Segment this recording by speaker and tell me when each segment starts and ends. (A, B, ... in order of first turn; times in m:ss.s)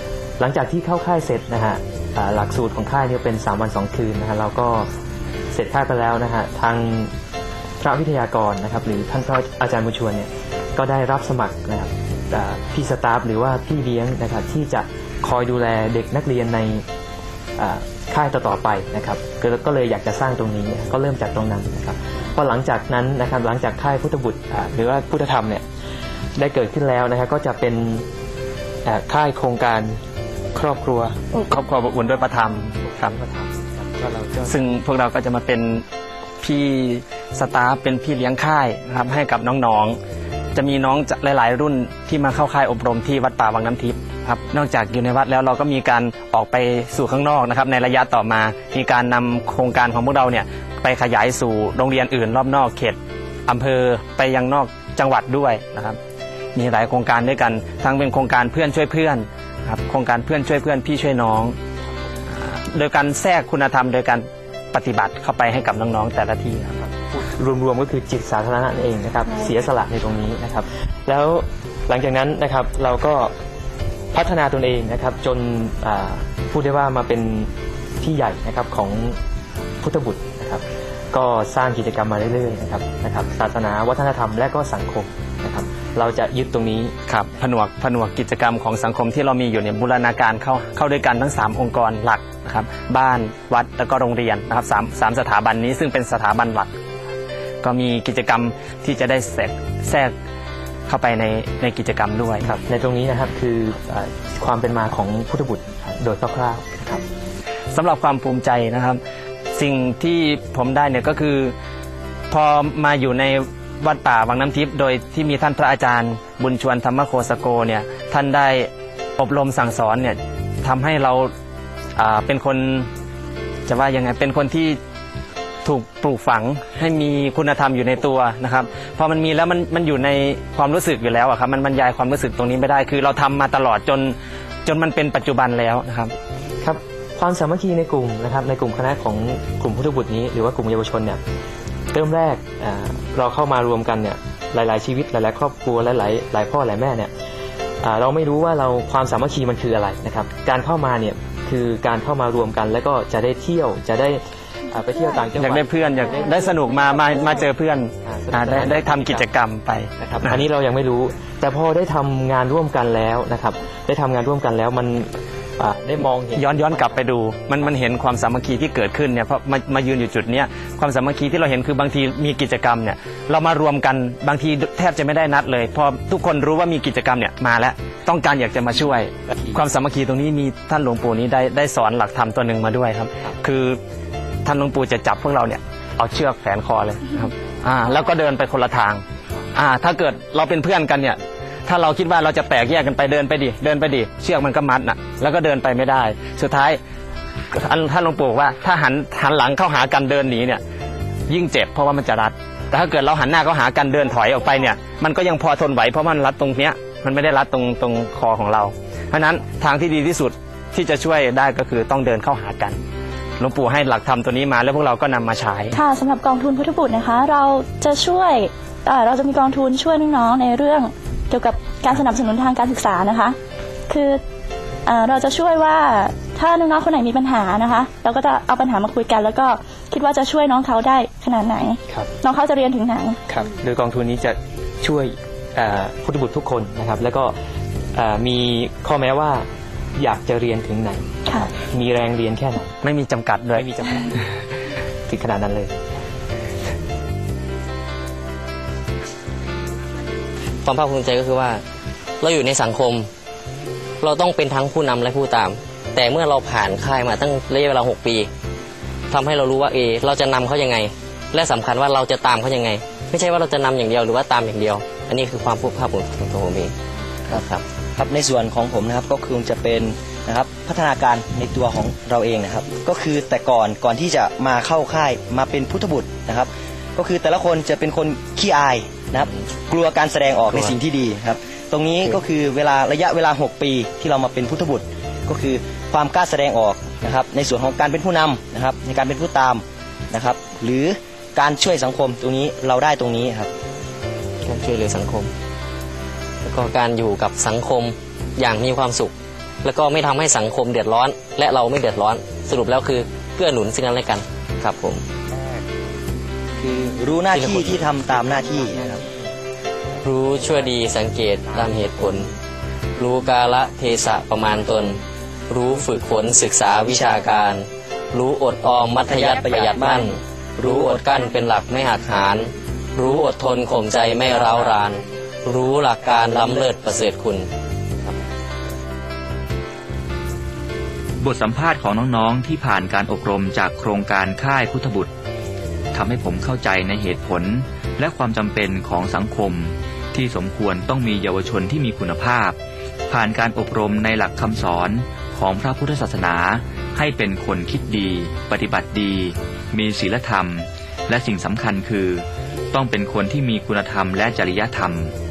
0:00.4-0:04.9 A
0:05.5-0:07.1 A
0:07.8-0:16.8 A
0:17.6-0:25.6 A
0:26.4-0:28.1 A
0:28.8-0:30.0 A
0:30.5-0:31.2 A
0:31.4-0:33.2 B
0:32.8-0:34.6 A
0:34.5-0:35.8 B
0:36.4-0:40.0 B
0:40.6-0:56.0 B
0:56.6-1:01.6 B
1:02.4-1:06.8 B
1:06.9-1:13.3 A
1:14.1-1:19.2 A
1:19.8-1:26.9 A
1:27.1-1:36.7 B
1:37.6-1:40.1 B
1:40.9-1:42.6 B
1:42.6-1:47.0 A
1:47.7-1:49.0 B
1:49.5-1:51.6 B
1:52.3-2:01.3 B
2:02.0-2:02.9 B
2:03.7-2:04.8 B
2:05.6-2:16.1 B
2:16.6-2:21.2 A
2:21.9-2:27.1 A
2:27.8-2:37.5 A
2:35.4-2:40.4 B
2:38.0-2:39.3 A
2:40.0-2:47.1 A
2:46.3-3:03.8 B
3:04.4-3:09.0 B
3:09.5-3:16.8 B
3:17.5-3:20.6 B
3:21.3-3:32.8 B
3:33.4-3:35.8 B
3:35.8-3:43.4 C
3:43.9-3:44.2 C
3:44.9-3:53.2 C
3:53.3-3:57.3 A
3:58.0-3:59.5 A
4:00.0-4:02.8 A
4:02.8-4:03.7 B
4:03.6-4:04.2 A
4:05.1-4:05.8 A
4:10.7-4:11.6 D
4:12.2-4:13.1 D
4:14.0-4:18.3 D
4:19.1-4:26.7 D
4:27.3-4:53.5 E
4:27.3-4:27.6 D
4:54.4-4:55.3 D
4:56.4-4:59.1 D
4:59.6-5:05.0 D
5:05.4-5:05.6 E
5:06.6-5:09.0 E
5:07.4-5:07.7 D
5:10.0-5:12.3 D
5:13.0-5:27.5 D
5:19.0-5:21.2 E
5:24.1-5:24.9 E
5:26.1-5:26.7 E
5:31.2-5:35.1 F
5:35.9-5:42.6 F
5:43.1-5:55.1 F